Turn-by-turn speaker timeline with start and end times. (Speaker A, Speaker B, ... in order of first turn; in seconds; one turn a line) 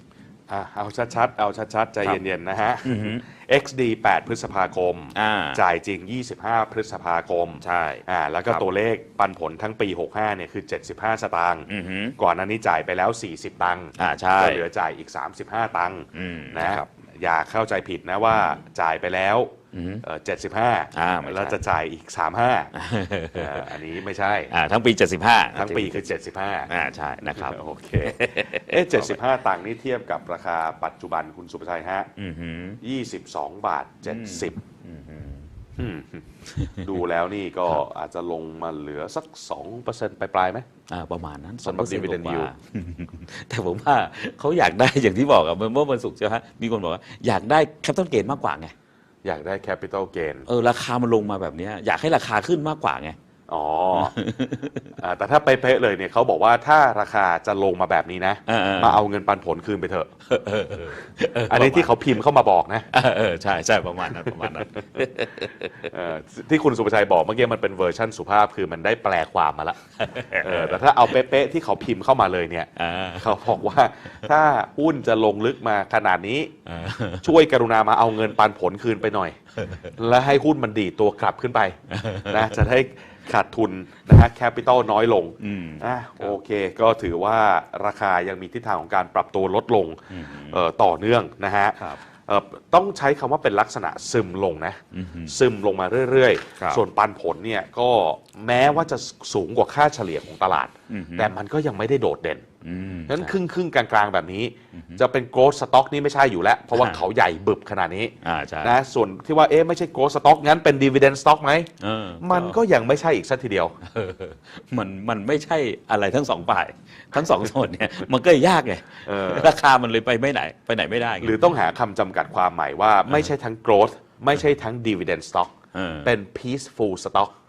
Speaker A: 0.5-22.7
Speaker B: 2.8-3.2
Speaker B: 5.2-5.6
Speaker B: 7.6-8.7
Speaker B: 11.7-12.2
Speaker B: 14.0-14.6
Speaker B: 16.1-16.9
Speaker B: 19.7-20.0
Speaker B: 20.9-21.6
Speaker B: 22.7-23.7
Speaker A: 23.3-24.5
Speaker B: 24.5-26.1
Speaker A: 25.6-26.7
Speaker B: 26.7-29.2
Speaker A: 27.3-32.1
Speaker B: 32.2-32.8
Speaker A: 32.8-34.6
Speaker B: 34.1-35.5
Speaker A: 35.8-40.7
Speaker B: 36.5-36.9
Speaker B: 40.9-48.7
Speaker A: 41.6-42.5
Speaker A: 49.2-50.5
Speaker B: 50.5-53.2
Speaker A: 53.5-54.1
Speaker B: 53.9-54.9
Speaker A: 55.0-60.1
Speaker B: 58.5-59.0
Speaker B: 60.3-62.0
Speaker A: 61.5-62.9
Speaker B: 62.9-65.9
Speaker A: 65.8-69.8
Speaker B: 70.0-70.8
Speaker A: 70.3-76.6
Speaker B: 72.8-73.5
Speaker B: 76.7-77.3
Speaker A: 77.2-79.4
Speaker B: 79.6-79.9
Speaker A: 79.9-102.5
Speaker B: 81.9-82.6
Speaker B: 85.4-86.4
Speaker B: 90.1-90.6
Speaker B: 94.9-95.4
Speaker B: 100.9-101.3
Speaker B: 102.6-103.3
Speaker A: 103.1-113.8
Speaker B: 104.7-105.0
Speaker B: 106.7-107.0
Speaker B: 108.2-108.8
Speaker B: 111.8-112.6
Speaker B: 113.8-121.5
Speaker A: 119.1-119.6
Speaker A: 121.2-125.5
Speaker B: 125.7-126.1
Speaker A: 126.0-127.3